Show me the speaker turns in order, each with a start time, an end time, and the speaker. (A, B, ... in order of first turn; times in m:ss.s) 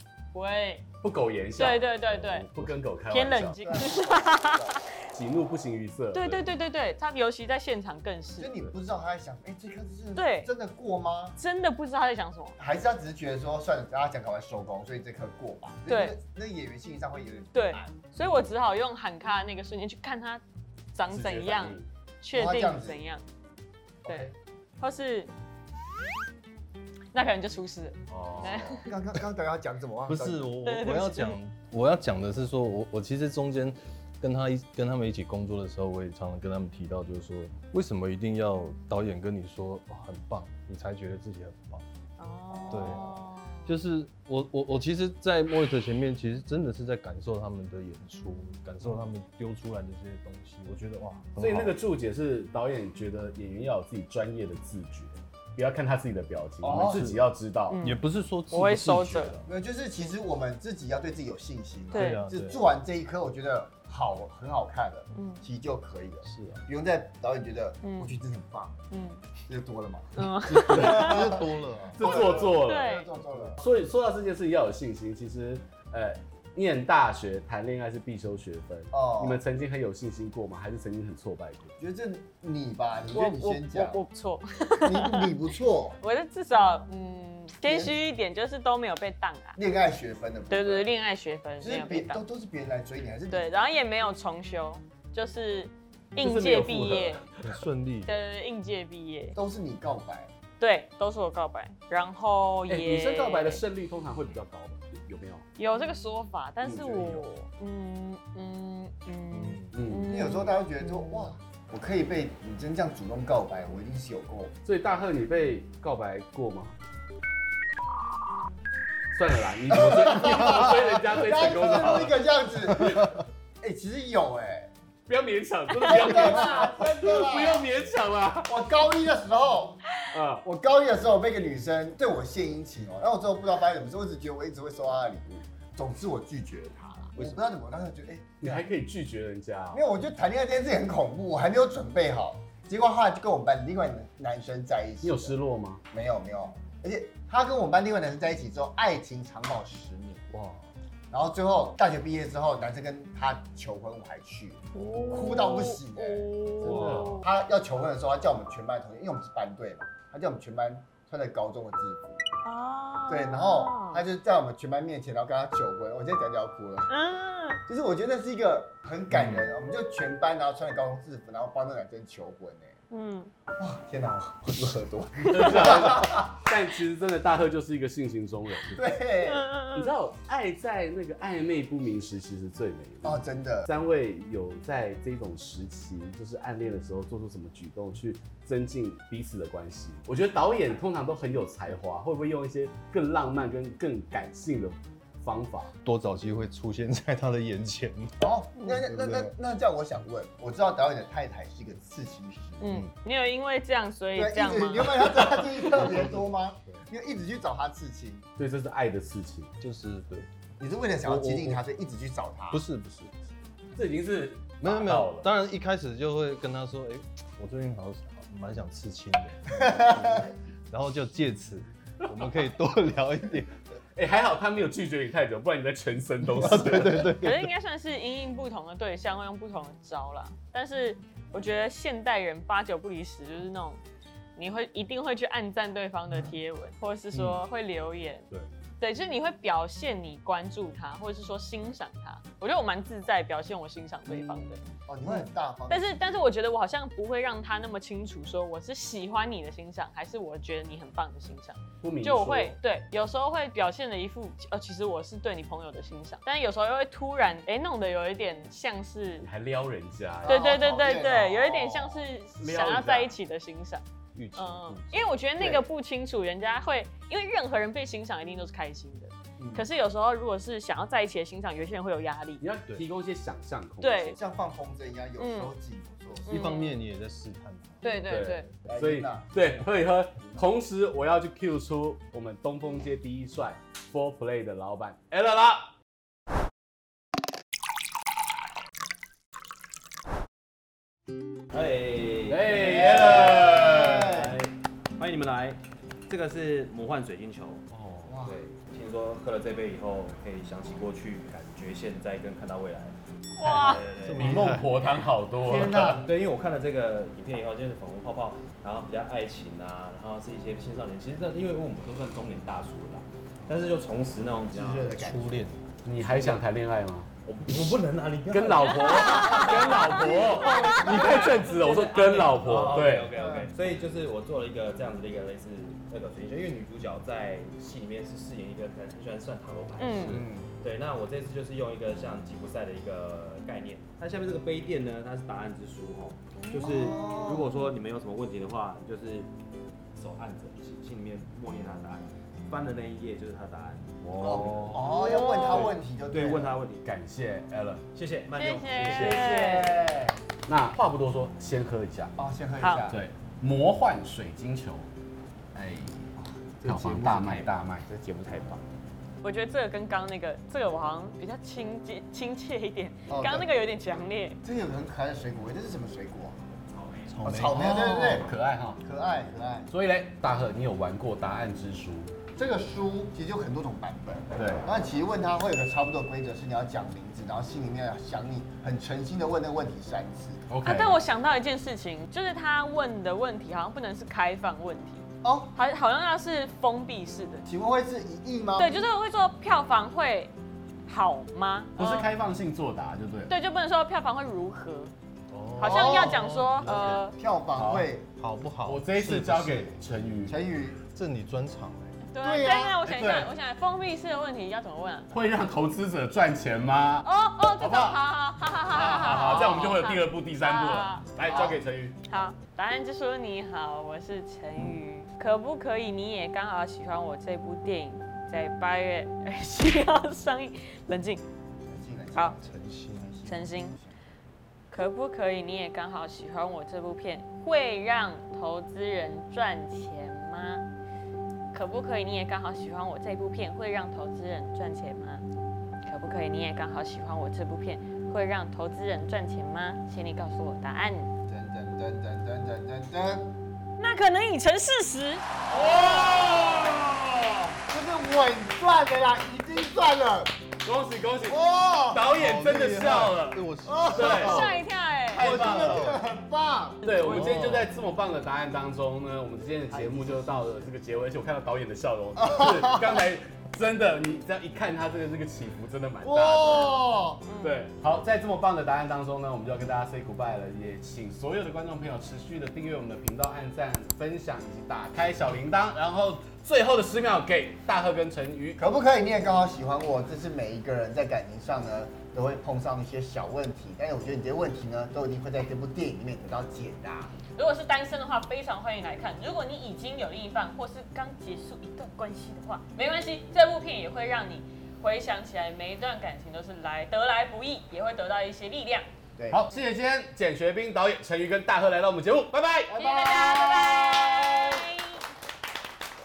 0:00.3-0:00.8 A
0:01.0-0:03.6 B
0:01.5-0:02.5 A
0:03.1-0:04.8 A
0:03.6-0:04.8 C
0:05.1-0:06.5 B
0:06.1-0:08.5 A
0:08.4-0:11.4 C
0:10.1-0:10.5 A
0:11.4-0:12.6 A
0:12.6-0:18.0 C
0:15.9-0:16.2 A
0:17.5-0:20.4 A
0:20.9-0:23.2 A
0:21.1-0:21.9 B
0:22.3-0:23.0 C
0:24.0-0:24.3 C
0:24.0-0:25.3 A
0:27.1-0:28.8 A
0:28.1-0:28.6 B
0:28.4-0:30.5 C
0:30.1-0:41.8 D
0:30.6-0:31.4 A
0:42.2-0:43.8 A
0:42.6-0:43.0 C
0:42.7-0:51.7 D
0:51.4-0:57.8 B
0:56.6-0:57.1 C
0:56.6-0:57.2 D
0:57.7-0:59.4 A
0:57.8-0:59.5 D
0:59.4-1:08.8 C
1:01.9-1:02.2 A
1:01.9-1:02.6 D
1:05.1-1:05.4 A
1:06.2-1:06.6 D
1:07.8-1:08.1 A
1:08.9-1:09.2 A
1:09.5-1:13.6 C
1:10.2-1:11.4 A
1:10.7-1:11.0 B
1:10.7-1:12.1 D
1:11.9-1:21.8 B
1:12.5-1:13.1 A
1:18.9-1:19.4 C
1:21.8-1:24.0 C
1:23.1-1:25.3 A
1:24.8-1:26.0 C
1:26.0-1:29.6 A
1:27.6-1:28.0 C
1:29.6-1:30.9 C
1:30.5-1:32.2 A
1:31.6-1:33.7 C
1:33.3-1:37.2 A
1:36.2-1:37.6 B
1:37.5-1:38.1 D
1:38.0-1:39.4 A
1:39.3-1:40.3 C
1:40.6-1:43.6 A
1:42.7-1:45.4 B
1:45.6-1:51.3 A
1:46.6-1:47.2 B
1:49.3-1:49.8 D
1:49.7-1:50.1 B
1:50.1-1:54.5 C
1:54.6-1:56.8 B
1:59.1-2:02.2 B
1:59.7-2:04.7 C
2:01.7-2:02.0 D
2:02.7-2:03.1 D
2:05.1-2:08.5 B
2:05.8-2:07.7 C
2:05.8-2:06.2 A
2:08.4-2:09.8 C
2:10.1-2:10.4 B
2:10.4-2:18.7 C
2:18.4-2:19.8 B
2:19.7-2:25.4 C
2:25.0-2:25.8 B
2:25.9-2:30.3 C
2:30.3-2:30.7 D
2:31.1-2:42.2 C
2:34.7-2:37.3 A
2:36.6-2:37.1 B
2:36.6-2:37.2 D
2:42.4-2:44.0 A
2:43.1-2:46.9 C
2:46.9-2:47.6 A
2:47.7-2:52.8 C
2:49.1-2:49.4 D
2:52.9-2:53.3 A
2:53.6-2:56.3 C
2:55.3-2:58.8 B
2:58.7-2:59.5 C
2:59.2-2:59.9 A
2:59.7-3:15.7 B
3:03.0-3:03.7 C
3:15.8-3:18.2 D
3:18.2-3:22.8 C
3:18.7-3:19.3 D
3:22.6-3:25.3 A
3:24.1-3:28.3 C
3:25.9-3:26.2 D
3:28.4-3:29.5 B
3:29.6-3:30.3 D
3:30.6-3:32.6 C
3:31.0-3:31.6 D
3:32.5-3:33.2 D
3:33.7-3:35.3 B
3:34.6-3:43.6 D
3:44.0-3:47.1 B
3:46.3-3:47.5 D
3:47.2-3:53.8 A
3:54.4-3:58.3 A
3:57.1-3:57.4 D
3:58.8-4:19.3 A
4:04.1-4:04.6 B
4:04.9-4:06.2 C
4:11.8-4:12.6 B
4:19.2-4:20.5 B
4:20.2-4:22.1 C
4:20.2-4:32.4 A
4:22.4-4:23.1 B
4:24.1-4:25.1 D
4:29.4-4:29.6 C
4:32.4-4:34.2 B
4:33.8-4:34.2 A
4:34.1-4:36.3 C
4:35.2-4:35.5 A
4:36.2-4:38.2 D
4:36.3-4:36.8 A
4:37.8-4:38.5 A
4:38.0-4:45.7 B
4:38.6-4:40.5 C
4:51.5-4:57.6 E
4:52.3-4:54.3 B
4:52.6-4:54.4 C
4:58.0-4:58.4 C
4:58.2-5:03.0 E
5:03.3-5:03.8 A
5:03.4-5:06.0 B
5:03.5-5:04.5 E
5:04.0-5:04.7 D
5:05.4-5:06.1 C
5:06.0-5:15.1 E
5:14.5-5:15.4 C
5:15.0-5:15.6 D
5:15.8-5:17.1 B
5:16.0-5:16.4 E
5:17.2-5:39.3 E
5:18.3-5:23.1 B
5:20.4-5:20.8 A
5:20.4-5:20.8 C
5:23.1-5:23.5 C
5:29.8-5:30.2 A
5:30.1-5:30.5 C
5:36.5-5:37.6 C
5:40.0-5:43.9 E
5:44.0-5:44.8 B
5:44.2-5:46.6 C
5:44.8-5:45.8 A
5:45.4-5:45.7 B
5:45.6-5:46.8 E
5:46.8-5:47.8 B
5:47.9-5:49.6 E
5:48.4-5:49.8 A
5:48.7-5:52.1 B
5:52.2-5:53.0 C
5:52.6-5:52.9 A
5:52.9-5:54.9 B
5:55.5-5:57.9 B
5:56.6-5:58.6 E
5:59.2-6:04.4 A
6:03.1-6:03.5 C
6:04.4-6:06.4 C
6:06.8-6:07.1 E
6:07.1-6:07.8 D
6:07.2-6:09.7 C
6:07.3-6:08.8 B
6:09.7-6:12.1 B
6:12.4-6:20.5 C
6:14.4-6:14.6 B
6:20.5-6:21.0 B
6:20.6-6:27.5 A
6:25.2-6:25.5 C
6:27.4-6:28.8 C
6:28.6-6:30.3 A
6:30.8-6:32.1 A
6:31.8-6:33.3 B
6:33.3-6:34.9 A
6:35.3-6:37.1 D
6:35.6-6:37.2 A
6:35.6-6:36.2 C
6:37.1-6:38.1 C
6:37.5-6:37.9 B
6:38.2-6:39.8 D
6:38.6-6:40.4 B
6:40.2-6:40.8 C
6:40.8-6:42.0 D
6:42.1-6:45.1 A
6:42.2-6:42.8 C
6:42.8-6:43.3 B
6:45.1-6:52.0 B
6:47.0-6:51.2 A
6:51.2-6:51.6 C
6:52.1-7:01.2 A
7:01.7-7:04.0 C
7:02.4-7:03.1 D
7:03.2-7:03.8 A
7:04.7-7:10.6 A
7:11.5-7:15.2 A
7:15.8-7:21.1 A
7:21.3-7:23.3 C
7:23.8-7:25.2 A
7:25.5-7:30.3 C
7:30.6-7:34.4 B
7:31.3-7:32.1 C
7:32.1-7:34.6 D
7:33.6-7:34.5 C
7:34.1-7:35.3 A
7:35.1-7:36.0 B
7:35.2-7:36.8 C
7:35.2-7:36.0 D
7:36.8-7:46.8 B
7:36.8-7:37.4 A
7:37.0-7:37.7 D
7:39.7-7:40.7 C
7:42.2-7:43.0 C
7:46.0-7:47.2 C
7:47.2-7:47.6 A
7:47.4-7:58.6 B
7:58.6-8:07.1 C
8:07.3-8:18.9 A
8:19.2-8:19.4 C
8:19.3-8:24.6 B
8:22.7-8:25.0 A